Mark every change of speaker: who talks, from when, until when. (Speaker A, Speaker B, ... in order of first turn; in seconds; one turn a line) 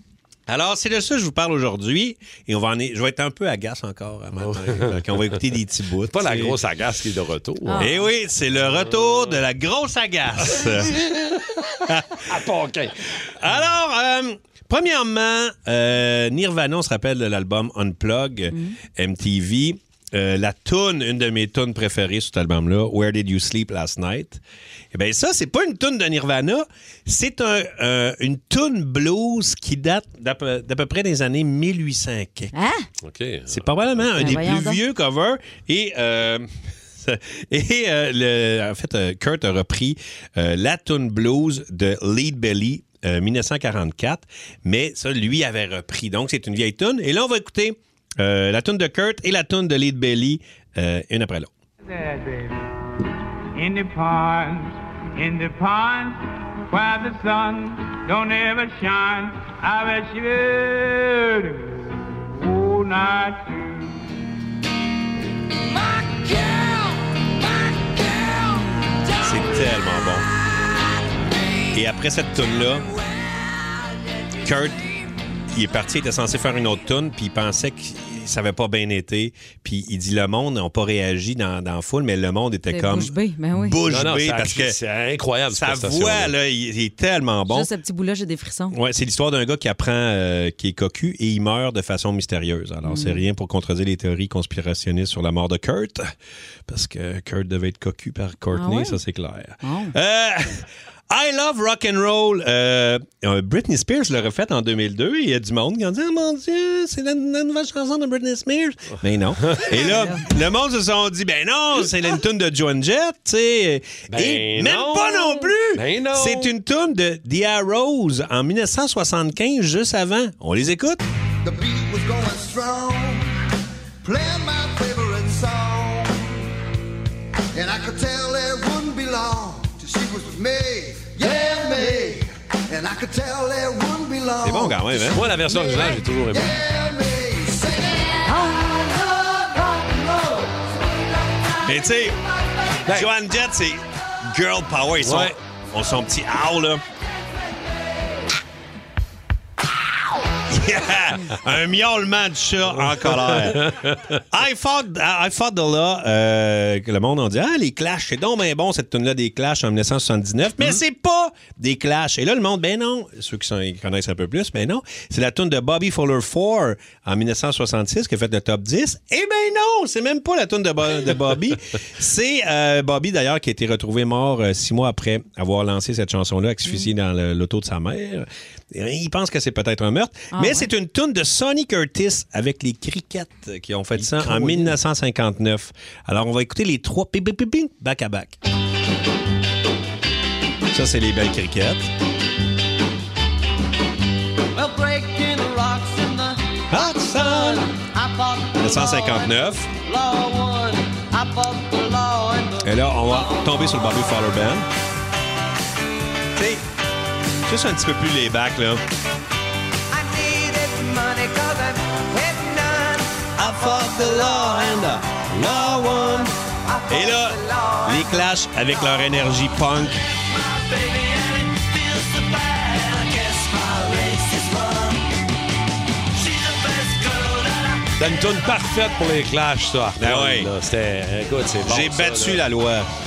Speaker A: 0.5-6.6
Speaker B: 4.4-5.4
Speaker B: 6.1-7.9
Speaker C: 7.7-8.1
Speaker A: 7.8-11.0
Speaker B: 8.6-9.4
Speaker A: 11.9-12.2
Speaker B: 12.3-12.9
Speaker A: 13.4-24.4
Speaker A: 24.9-32.5
Speaker C: 32.5-32.9
Speaker B: 33.0-34.4
Speaker A: 33.5-51.5
Speaker C: 34.2-34.8
Speaker D: 51.9-52.8
Speaker D: 53.5-64.2
Speaker A: 69.2-70.3
Speaker A: 71.7-72.9
Speaker A: 74.4-74.9
Speaker A: 75.5-84.8
Speaker C: 82.7-83.8
Speaker B: 83.9-86.3
Speaker A: 85.5-87.7
Speaker C: 87.5-88.8
Speaker A: 88.7-96.1
Speaker C: 92.8-93.2
Speaker A: 96.7-121.0
Speaker C: 98.5-99.0
Speaker C: 99.6-99.9
Speaker B: 109.4-109.7
Speaker B: 114.1-116.5
Speaker E: 121.4-123.3
Speaker E: 124.0-126.3
Speaker E: 127.5-134.9
Speaker A: 134.4-135.2
Speaker B: 135.0-136.6
Speaker E: 135.6-138.3
Speaker A: 141.7-142.2
Speaker A: 142.9-146.8
Speaker B: 145.0-145.4
Speaker A: 150.5-153.8
Speaker B: 152.8-154.2
Speaker A: 154.3-188.4
Speaker C: 180.3-180.7
Speaker B: 184.0-184.8
Speaker A: 190.7-191.9
Speaker A: 196.7-197.7
Speaker A: 198.6-199.7
Speaker A: 202.6-204.7
Speaker A: 206.4-206.6
Speaker A: 207.5-208.8
Speaker A: 213.4-216.3
Speaker A: 216.9-220.0
Speaker B: 228.0-232.5
Speaker A: 230.0-230.5
Speaker A: 231.6-232.9